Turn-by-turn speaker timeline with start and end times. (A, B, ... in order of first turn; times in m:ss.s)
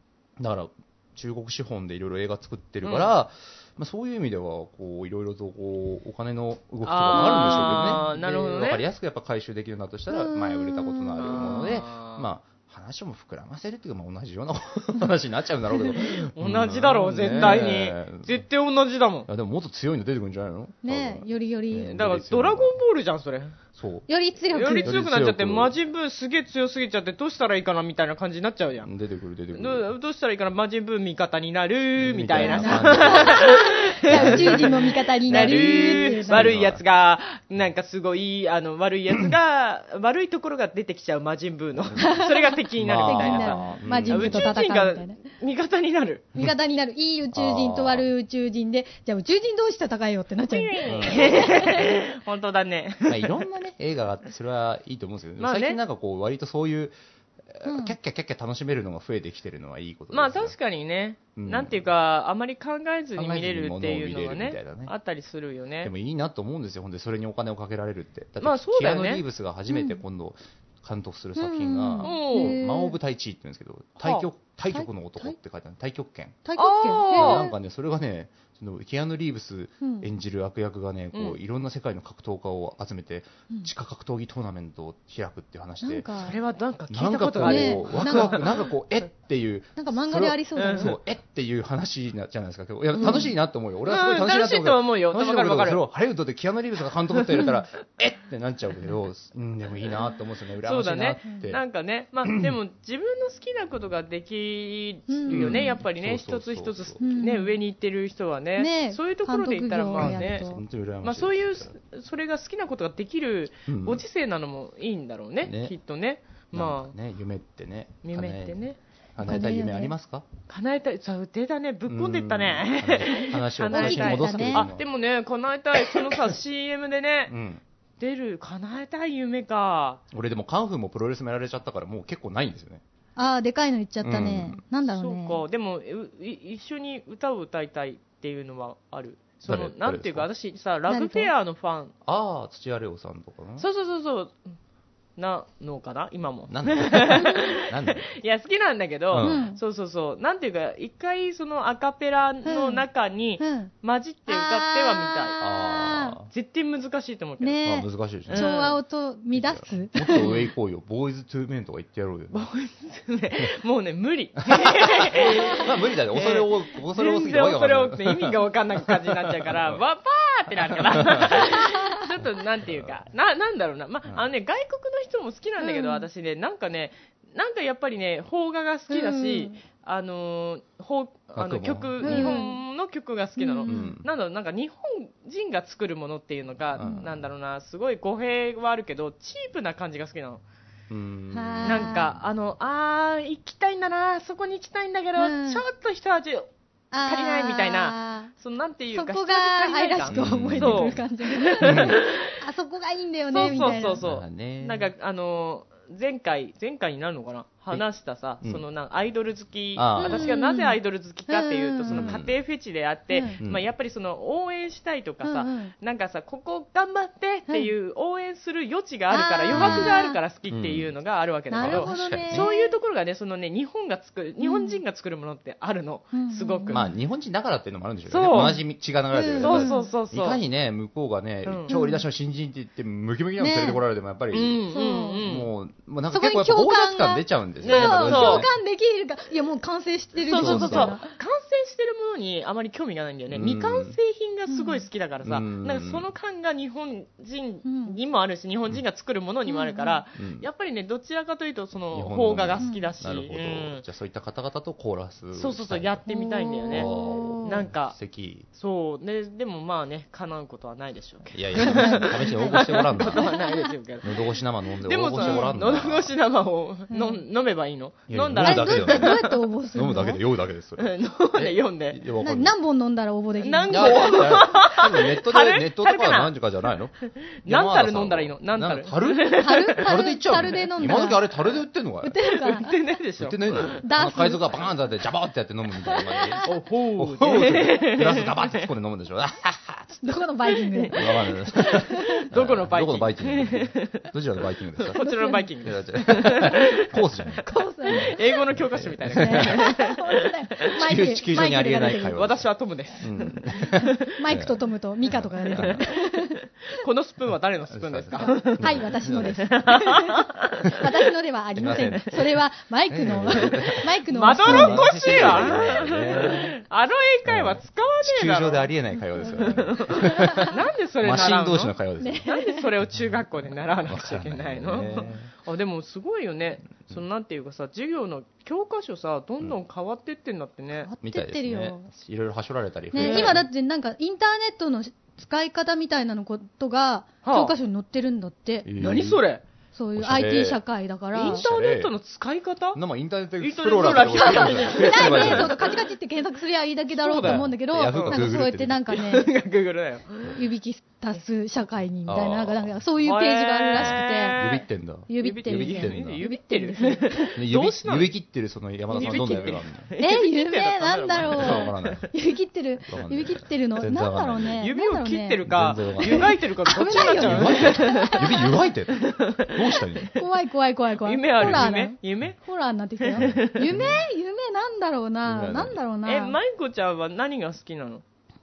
0:00.4-0:18.4 A
0:02.8-0:03.1 B
0:06.8-0:08.8 B
0:10.1-0:11.8 C
0:11.2-0:12.3 B
0:16.2-0:19.3 B
0:19.3-0:22.8 A
0:20.8-0:22.0 C
0:21.9-0:23.6 B
0:23.8-0:24.1 A
0:24.1-0:25.0 C
0:24.5-0:28.9 B
0:24.8-0:25.8 A
0:28.8-0:29.9 A
0:29.5-0:46.3 B
0:32.0-0:36.8 A
0:32.4-0:36.5 C
0:41.8-0:42.1 A
0:42.0-0:45.2 C
0:42.8-0:44.5 A
0:46.4-0:51.9 C
0:47.3-0:48.1 A
0:50.5-0:53.4 B
0:50.8-0:51.6 A
0:53.1-0:57.0 A
0:55.4-0:55.8 B
0:57.5-1:00.6 A
0:57.6-0:58.0 C
1:00.1-1:05.9 B
1:01.4-1:01.9 A
1:03.2-1:04.9 A
1:05.8-1:16.4 A
1:08.4-1:09.2 B
1:09.7-1:10.0 C
1:11.4-1:13.0 C
1:12.0-1:12.6 B
1:14.0-1:14.3 B
1:14.7-1:15.4 C
1:16.4-1:17.5 C
1:16.6-1:17.5 B
1:17.1-1:26.1 A
1:19.8-1:20.1 C
1:25.8-1:26.4 C
1:26.2-1:28.6 B
1:26.9-1:41.6 A
1:27.4-1:28.5 C
1:29.8-1:31.0 C
1:30.6-1:31.0 B
1:33.0-1:33.3 B
1:33.0-1:33.3 C
1:33.9-1:35.8 B
1:37.2-1:37.5 B
1:40.6-1:57.0 B
1:42.2-1:42.6 A
1:45.1-1:45.6 C
1:45.3-1:47.0 A
1:47.0-1:47.6 C
1:48.6-1:50.6 C
1:50.0-1:51.7 A
1:53.7-1:54.0 A
1:55.4-1:55.8 A
1:56.5-1:58.6 A
1:58.0-1:58.8 B
1:59.2-2:00.3 A
1:59.2-1:59.9 C
2:00.5-2:07.3 B
2:01.9-2:04.8 A
2:03.7-2:04.7 C
2:07.3-2:07.6 A
2:08.0-2:10.0 B
2:10.1-2:12.8 A
2:13.2-2:15.4 C
2:14.0-2:14.6 A
2:14.9-2:21.9 B
2:19.5-2:20.3 A
2:20.9-2:21.3 C
2:22.1-2:23.7 A
2:23.6-2:24.4 B
2:25.2-2:35.4 B
2:26.5-2:28.2 A
2:27.2-2:27.4 C
2:29.1-2:29.4 A
2:29.2-2:29.6 C
2:32.4-2:32.9 C
2:33.4-2:33.7 C
2:34.3-2:36.2 C
2:35.4-2:36.3 A
2:36.3-2:37.6 B
2:37.4-2:40.3 C
2:37.6-2:38.5 A
2:38.3-2:38.8 B
2:39.3-2:42.4 A
2:40.2-2:40.5 B
2:42.3-3:10.4 B
2:44.5-2:49.8 A
2:50.5-2:51.7 A
2:51.6-2:52.0 C
2:52.6-2:53.0 A
2:55.6-2:56.1 C
2:58.9-2:59.6 C
3:01.4-3:02.4 A
3:02.0-3:02.6 C
3:03.4-3:04.0 C
3:03.7-3:04.1 A
3:06.8-3:07.3 A
3:06.8-3:07.1 C
3:10.9-3:12.2 A
3:11.3-3:12.1 C
3:11.6-3:16.5 B
3:15.2-3:15.6 C
3:16.9-3:18.3 C
3:17.0-3:22.3 B
3:18.9-3:24.0 C
3:20.1-3:21.0 A
3:21.6-3:22.0 A
3:23.3-3:46.9 B
3:24.0-3:24.9 A
3:29.8-3:30.3 A
3:30.0-3:32.2 C
3:31.9-3:32.4 A
3:33.1-3:33.4 C
3:35.2-3:35.7 C
3:39.1-3:40.2 C
3:39.5-3:40.0 A
3:40.5-3:40.9 A
3:41.5-3:42.7 C
3:41.5-3:42.5 A
3:44.4-3:44.8 C
3:46.1-3:46.9 C
3:46.7-3:54.6 A
3:48.1-3:48.6 B
3:49.1-3:49.9 C
3:49.4-3:50.4 B
3:51.5-3:51.8 B
3:51.7-3:52.0 C
3:53.4-3:53.8 C
3:54.3-3:55.5 B
3:54.7-3:55.2 C
3:55.2-3:58.5 A
3:56.1-4:01.1 C
3:57.6-3:58.5 B
4:00.2-4:13.8 B
4:00.3-4:01.0 A
4:03.3-4:04.0 A
4:04.5-4:04.9 C
4:05.2-4:06.1 A
4:07.6-4:08.0 C
4:09.5-4:10.0 C
4:10.2-4:10.5 A
4:11.9-4:16.0 A
4:12.6-4:12.9 C
4:15.4-4:16.9 B
4:16.1-4:17.7 C
4:16.7-4:18.5 A
4:17.4-4:18.0 B
4:18.5-4:24.2 B
4:21.3-4:23.3 A
4:21.6-4:23.7 C
4:24.0-4:26.2 A
4:24.8-4:29.3 B
4:25.2-4:25.5 C
4:26.9-4:27.2 C
4:28.1-4:32.6 A
4:28.4-4:30.2 C
4:30.8-4:32.0 B
4:32.2-4:34.3 C
4:33.4-4:36.3 B
4:33.7-4:42.2 A
4:37.3-4:39.9 B
4:39.4-4:41.3 C
4:42.0-4:42.7 C
4:42.3-4:43.8 B
4:43.2-4:50.0 A
4:43.8-4:44.5 C
4:45.9-4:46.5 C
4:46.4-4:48.6 B
4:50.0-4:52.3 C
4:50.6-4:51.7 B
4:51.0-4:55.0 A
4:52.3-4:54.1 B
4:54.8-5:00.8 B
4:55.0-4:55.5 C
4:55.6-4:59.7 A
4:57.4-4:58.4 C
4:59.1-5:02.2 C
5:00.8-5:02.5 A
5:02.1-5:04.0 B
5:03.0-5:04.6 A
5:03.5-5:06.3 C
5:05.1-5:05.9 A
5:05.5-5:10.8 B
5:07.7-5:09.6 A
5:08.2-5:15.8 C
5:11.6-5:12.2 A
5:12.9-5:16.5 A
5:14.1-5:18.7 B
5:17.3-5:22.3 A
5:19.2-5:20.6 C
5:19.3-5:21.7 B
5:22.0-5:22.7 C
5:22.3-5:30.9 B
5:22.9-5:25.3 A
5:30.7-5:31.9 C
5:31.0-5:33.5 A
5:32.9-5:38.7 C
5:33.0-5:33.4 B
5:37.2-5:37.5 B
5:38.6-5:39.2 A
5:38.8-5:39.4 B
5:39.8-5:41.5 C
5:40.0-5:40.6 A
5:41.1-5:42.8 B
5:41.2-5:41.9 A
5:42.7-5:45.6 A
5:43.4-5:45.8 B
5:43.9-5:49.3 C
5:46.9-5:48.4 B
5:47.2-5:48.9 A
5:48.9-5:50.4 B
5:50.3-5:54.4 C
5:52.1-5:52.8 A
5:53.0-5:54.7 B
5:53.8-5:56.2 A
5:55.1-5:57.3 C
5:55.2-5:58.1 B
5:57.4-5:59.9 A
5:58.9-6:02.0 B
5:58.9-6:05.4 C
6:01.2-6:02.1 A
6:02.9-6:04.6 A
6:04.6-6:10.1 B
6:05.4-6:10.1 A
6:06.0-6:08.5 C
6:10.2-6:16.4 C
6:11.0-6:12.4 B
6:11.4-6:11.7 A
6:13.0-6:13.7 B
6:13.2-6:14.1 A
6:15.3-6:15.8 A
6:16.0-6:18.0 B